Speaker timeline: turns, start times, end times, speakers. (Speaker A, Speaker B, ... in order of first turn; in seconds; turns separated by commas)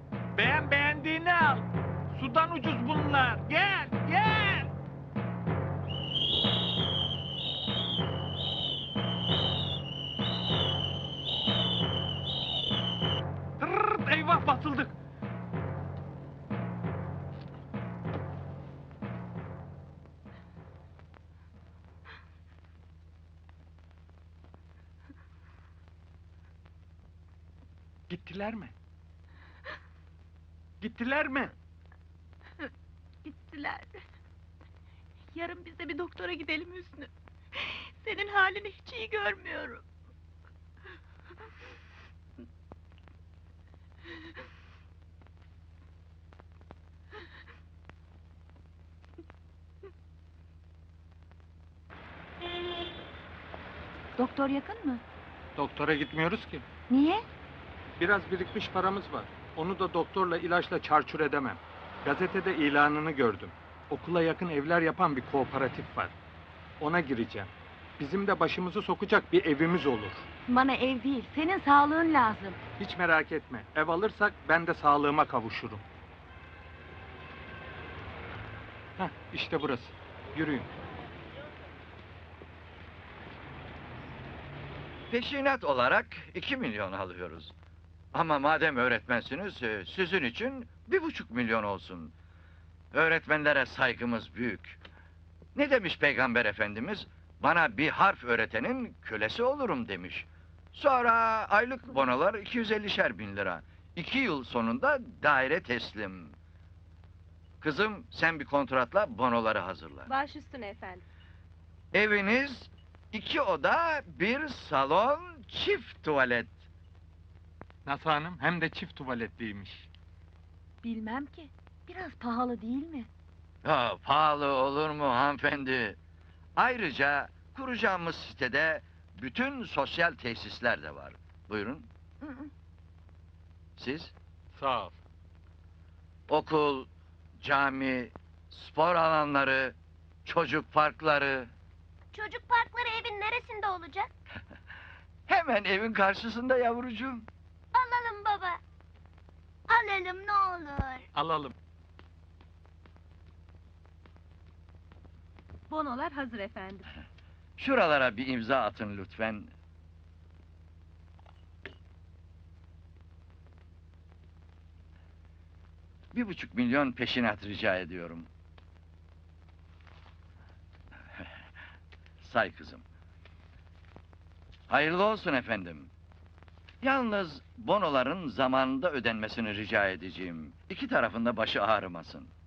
Speaker A: 0.3-4.7, Speaker A: 13.6-14.9, Speaker A: 28.1-28.7, Speaker A: 30.8-31.5, Speaker B: 33.2-33.9, Speaker B: 35.4-37.1, Speaker B: 38.0-39.8, Speaker B: 54.2-55.0, Speaker A: 55.6-56.7, Speaker B: 56.9-57.2, Speaker A: 58.0-66.2, Speaker A: 66.8-70.3, Speaker B: 70.5-72.6, Speaker A: 72.8-75.8, Speaker A: 79.0-80.7, Speaker C: 85.1-87.5, Speaker C: 88.1-92.1, Speaker C: 92.9-94.8, Speaker C: 95.5-106.3, Speaker C: 107.6-110.1, Speaker C: 111.9-116.6, Speaker A: 117.8-119.9, Speaker B: 120.8-123.1, Speaker C: 123.6-126.0, Speaker C: 126.6-131.9, Speaker C: 133.8-134.1, Speaker A: 134.5-135.0, Speaker C: 136.3-136.9, Speaker C: 137.4-141.5, Speaker D: 142.2-144.1, Speaker C: 145.3-147.3, Speaker D: 147.8-148.5, Speaker D: 149.7-151.0, Speaker A: 151.1-151.5, Speaker C: 157.6-159.5, Speaker C: 166.1-168.3, Speaker C: 172.2-172.8, Speaker C: 174.7-175.9, Speaker C: 176.8-182.3